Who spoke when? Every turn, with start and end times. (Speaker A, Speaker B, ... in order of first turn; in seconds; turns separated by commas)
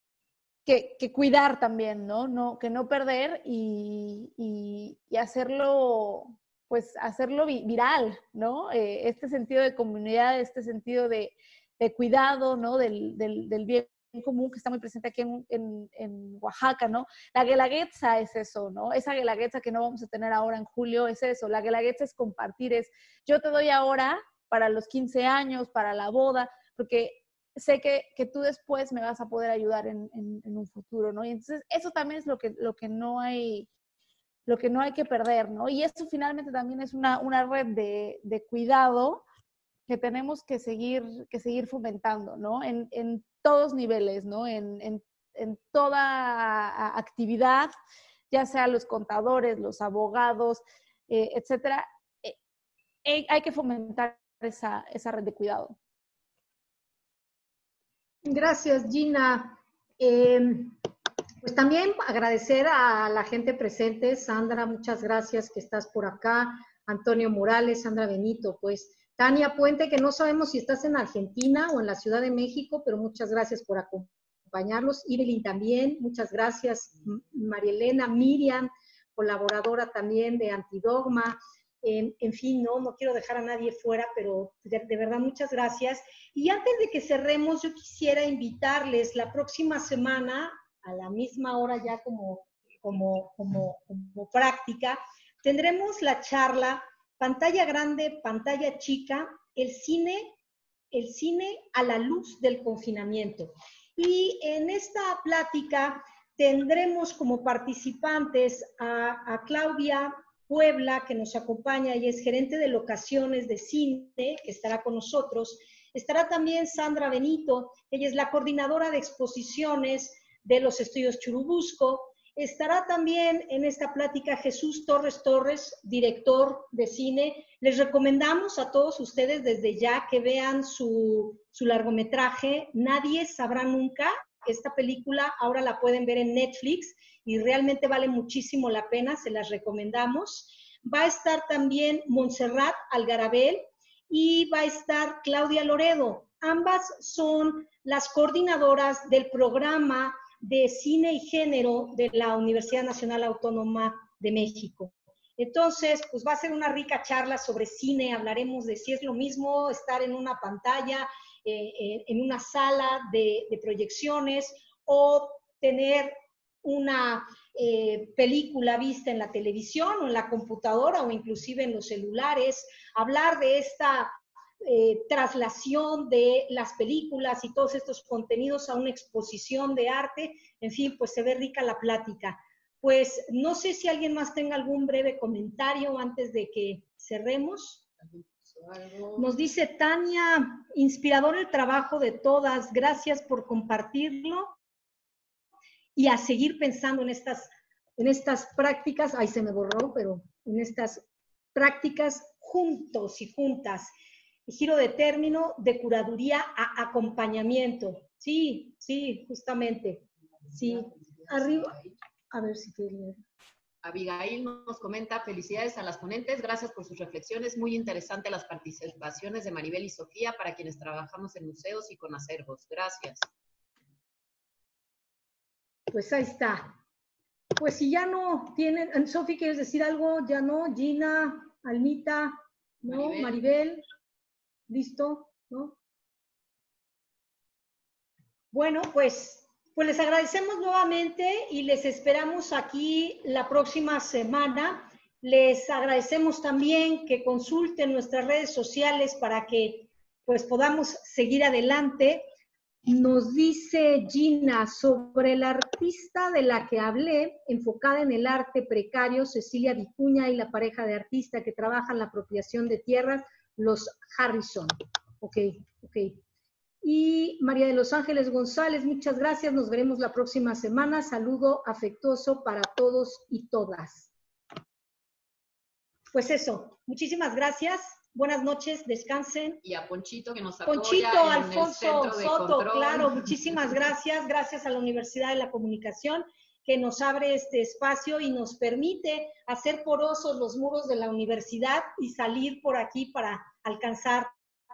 Speaker A: 0.7-33.7, Speaker A: 34.5-39.2, Speaker A: 39.9-47.7, Speaker A: 48.3-52.3, Speaker A: 53.0-55.7, Speaker B: 58.2-60.8, Speaker B: 61.4-100.3, Speaker B: 100.9-187.8, Speaker C: 188.0-189.3, Speaker B: 189.2-194.5, Speaker B: 195.9-201.0, Speaker B: 201.5-203.9, Speaker B: 204.5-211.7, Speaker C: 210.5-212.0, Speaker B: 212.3-213.2, Speaker C: 213.8-223.3, Speaker B: 225.9-226.8, Speaker B: 227.6-233.8, Speaker C: 232.9-233.4, Speaker B: 234.7-235.7, Speaker B: 238.5-252.3, Speaker B: 252.8-266.2, Speaker B: 266.8-274.1, Speaker B: 276.1-279.6, Speaker C: 279.6-283.8, Speaker B: 280.7-294.3